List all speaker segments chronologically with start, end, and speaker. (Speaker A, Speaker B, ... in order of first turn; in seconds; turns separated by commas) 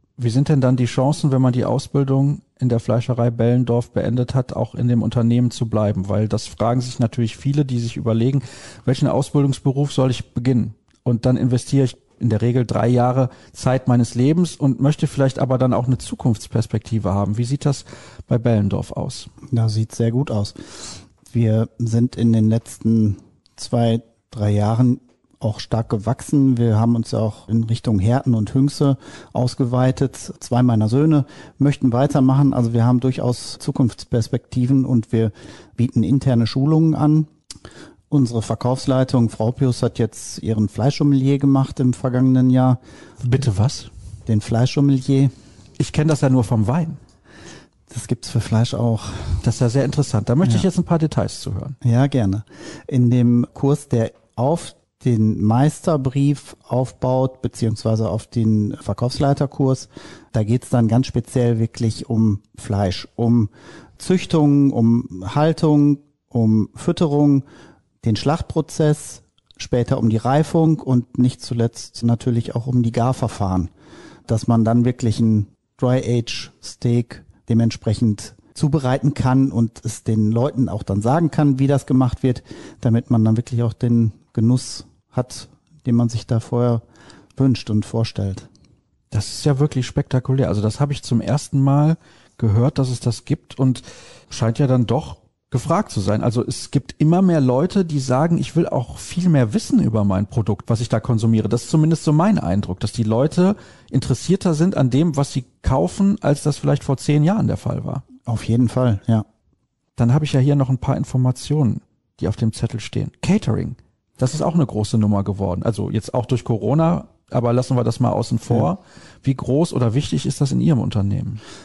Speaker A: 0.2-19.3, Speaker B: 19.5-37.3, Speaker B: 38.1-42.8, Speaker A: 43.2-43.9, Speaker B: 44.2-45.3, Speaker A: 45.8-47.0, Speaker B: 47.9-49.4, Speaker A: 49.4-51.8, Speaker B: 51.8-67.4, Speaker B: 68.0-73.7, Speaker B: 74.3-86.8, Speaker B: 87.3-88.5, Speaker A: 89.1-108.0, Speaker B: 108.2-109.2, Speaker A: 110.0-121.4